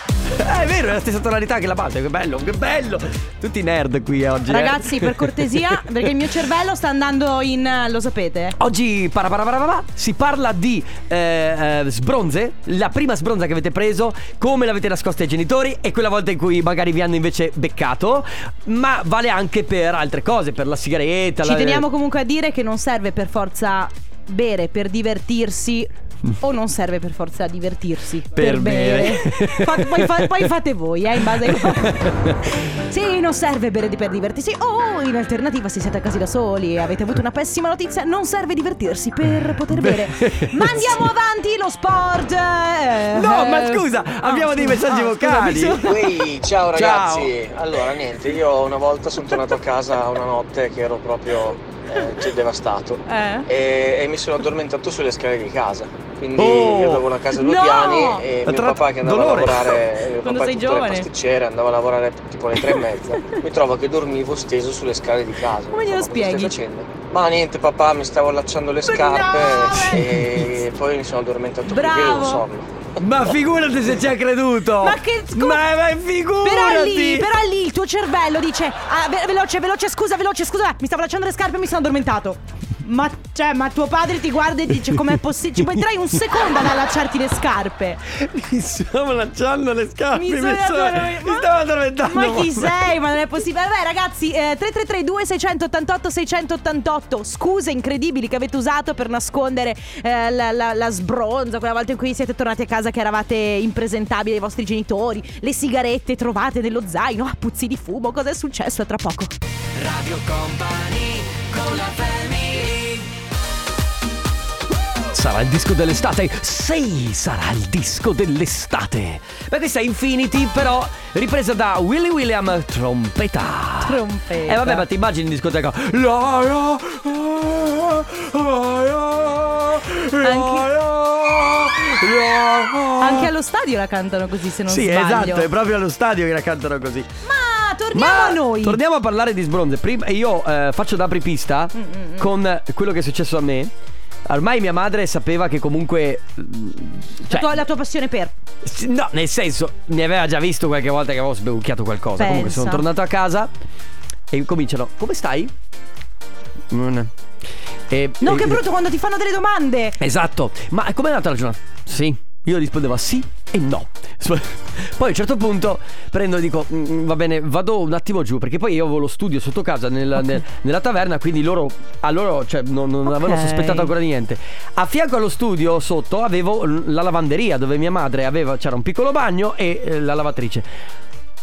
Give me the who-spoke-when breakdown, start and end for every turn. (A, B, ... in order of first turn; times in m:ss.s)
0:00.2-0:05.8 A
0:04.5-0:08.6 B
0:08.6-0:21.8 A
0:21.4-0:46.2 B
0:28.3-0:30.5 A
0:31.2-0:32.4 A
0:39.7-0:41.0 A
0:43.1-0:46.0 A
0:45.8-1:12.7 C
0:46.7-0:47.3 A
0:53.1-0:53.5 B
0:56.3-0:57.1 A
0:57.4-0:58.2 B
0:58.4-0:59.8 A
1:00.2-1:01.1 B
1:05.7-1:06.6 B
1:08.8-1:10.2 B
1:11.7-1:12.4 B
1:13.0-1:17.3 A
1:14.8-1:15.6 B
1:16.4-1:28.0 B
1:28.1-1:32.9 A
1:30.1-1:31.5 B
1:32.0-1:49.3 B
1:49.7-1:53.1 A
1:55.1-2:13.3 A
2:03.8-2:04.8 B
2:10.2-2:10.7 B
2:13.0-2:15.5 B
2:14.7-2:17.1 A
2:17.2-2:18.8 B
2:17.9-2:23.7 A
2:21.7-2:22.3 B
2:24.2-2:27.6 A
2:27.3-2:28.3 B
2:28.6-2:33.5 A
2:32.2-2:32.8 B
2:34.3-2:35.5 A
2:36.7-2:37.1 A
2:37.9-2:38.6 A
2:38.2-2:40.0 B
2:40.0-3:00.7 A
2:53.1-2:53.9 B